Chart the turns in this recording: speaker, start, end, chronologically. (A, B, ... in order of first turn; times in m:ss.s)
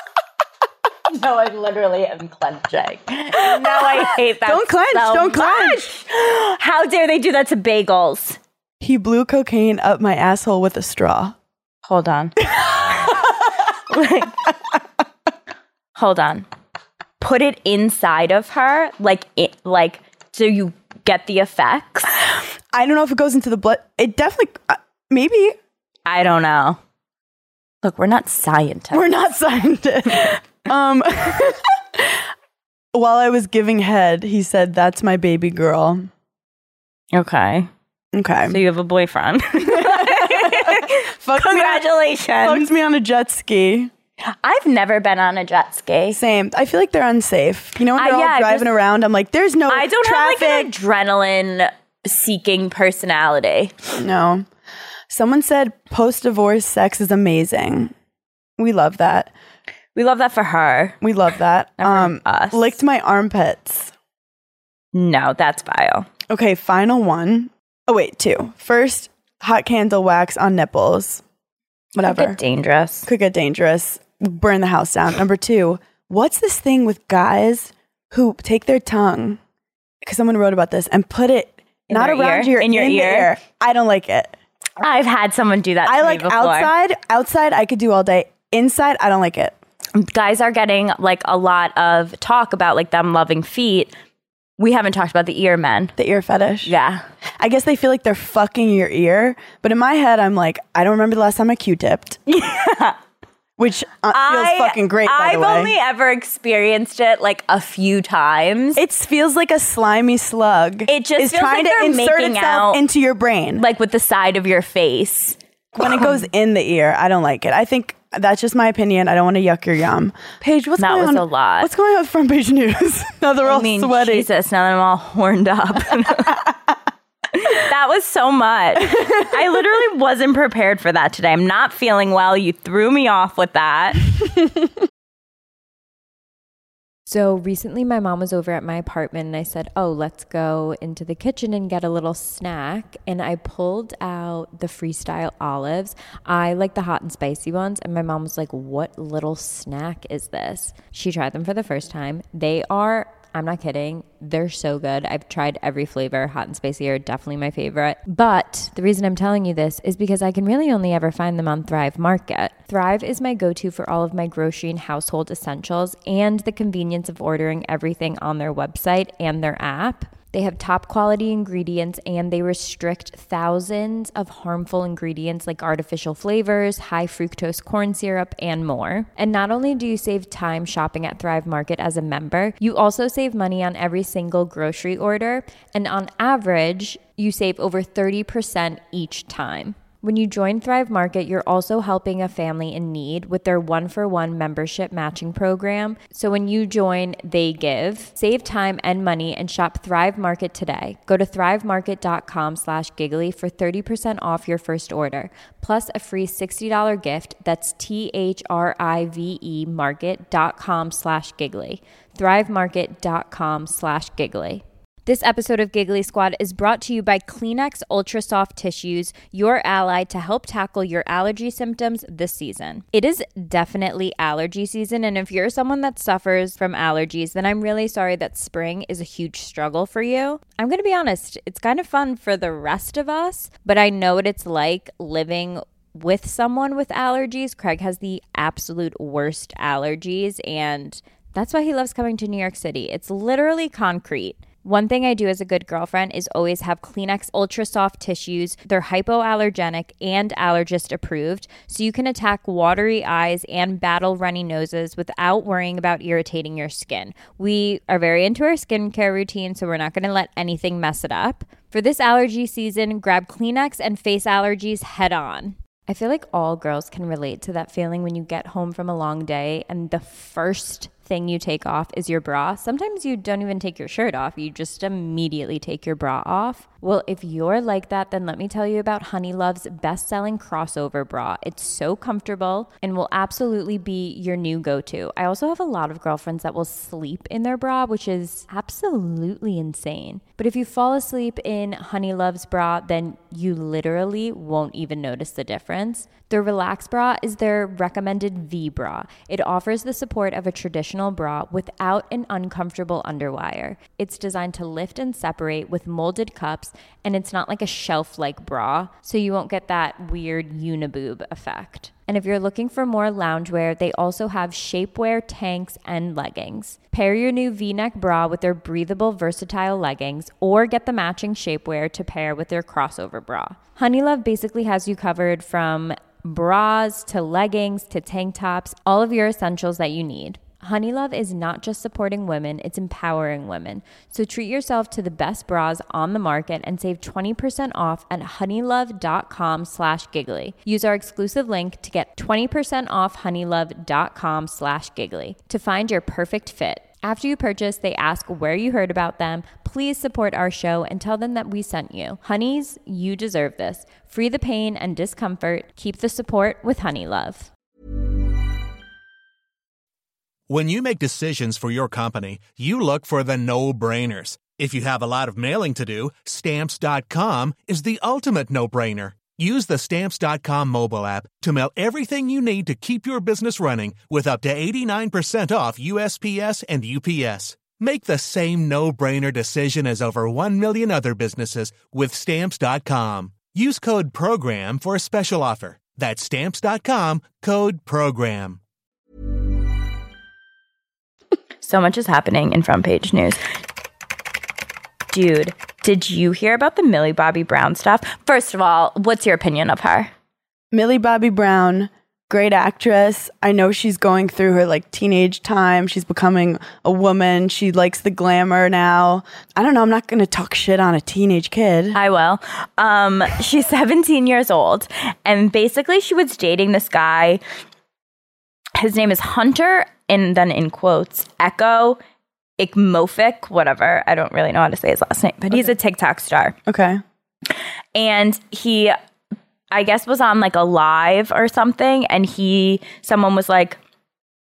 0:01.1-0:08.4 A
0:03.4-0:05.8 B
0:08.8-0:11.4 B
0:11.8-0:13.3 A
0:13.9-0:14.4 A
0:16.0-0:16.5 A
0:17.2-0:22.1 A
0:22.7-0:25.6 B
0:26.1-0:26.8 A
0:27.8-0:29.1 A
0:28.9-0:32.2 B
0:32.9-0:36.1 B
0:37.1-0:37.7 A
0:38.1-0:38.6 B
0:38.5-0:42.7 A
0:39.7-0:41.9 B
0:42.4-0:43.9 B
0:44.4-0:46.2 A
0:46.1-0:50.7 B
0:48.0-0:48.7 A
0:49.7-0:53.8 A
0:54.0-0:54.4 B
0:55.1-0:57.9 B
0:58.6-0:59.3 B
1:00.0-1:01.0 A
1:01.0-1:03.9 B
1:01.8-1:02.8 A
1:04.9-1:06.1 A
1:06.3-1:11.2 B
1:12.0-1:12.4 B
1:12.0-1:13.1 A
1:13.0-1:19.4 B
1:20.0-1:24.3 B
1:21.9-1:23.3 A
1:24.8-1:26.7 A
1:25.8-1:29.6 B
1:30.0-1:33.9 A
1:34.6-1:35.9 A
1:36.0-1:36.7 B
1:36.6-1:37.0 A
1:37.4-1:42.2 B
1:42.3-1:43.0 A
1:43.6-1:45.7 B
1:44.1-1:48.8 A
1:48.8-1:53.6 B
1:50.9-1:52.8 A
1:53.6-1:56.2 A
1:55.8-2:04.3 B
2:00.8-2:01.7 A
2:03.4-2:06.5 A
2:07.4-2:14.1 A
2:17.1-5:57.5 C
6:00.5-6:28.6 D
6:31.6-6:33.4 A
6:35.1-6:40.1 A
6:40.7-6:52.0 B
6:51.9-6:57.4 A
6:58.8-7:02.0 A
7:02.6-7:06.6 A
7:06.7-7:07.0 B
7:08.0-7:09.0 A
7:09.7-7:13.8 A